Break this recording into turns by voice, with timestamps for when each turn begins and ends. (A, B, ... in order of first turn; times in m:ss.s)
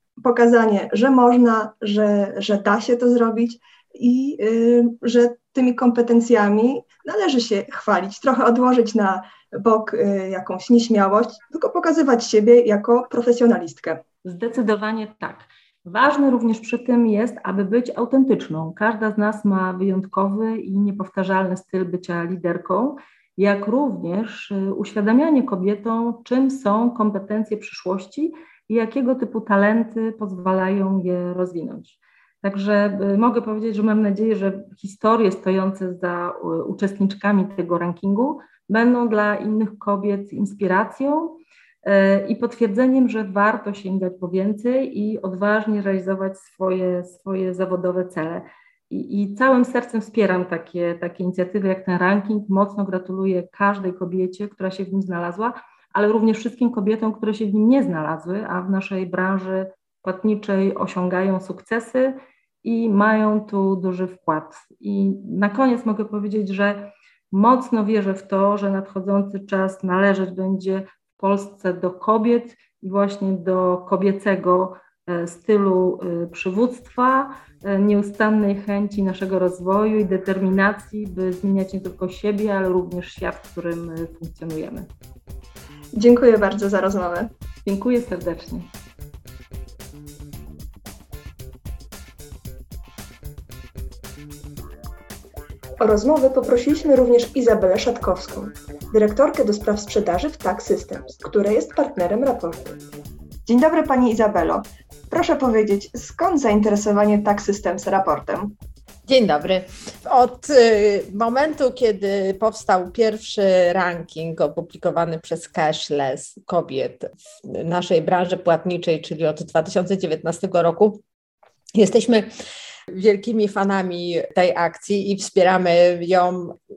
0:00.2-0:14.0 A
0:14.2-1:24.9 B
1:25.9-1:27.3 A
1:27.6-1:28.7 B
1:35.8-1:42.8 A
1:43.4-1:48.5 A
1:49.1-2:01.0 C
2:01.8-2:02.3 C
2:02.9-2:06.6 C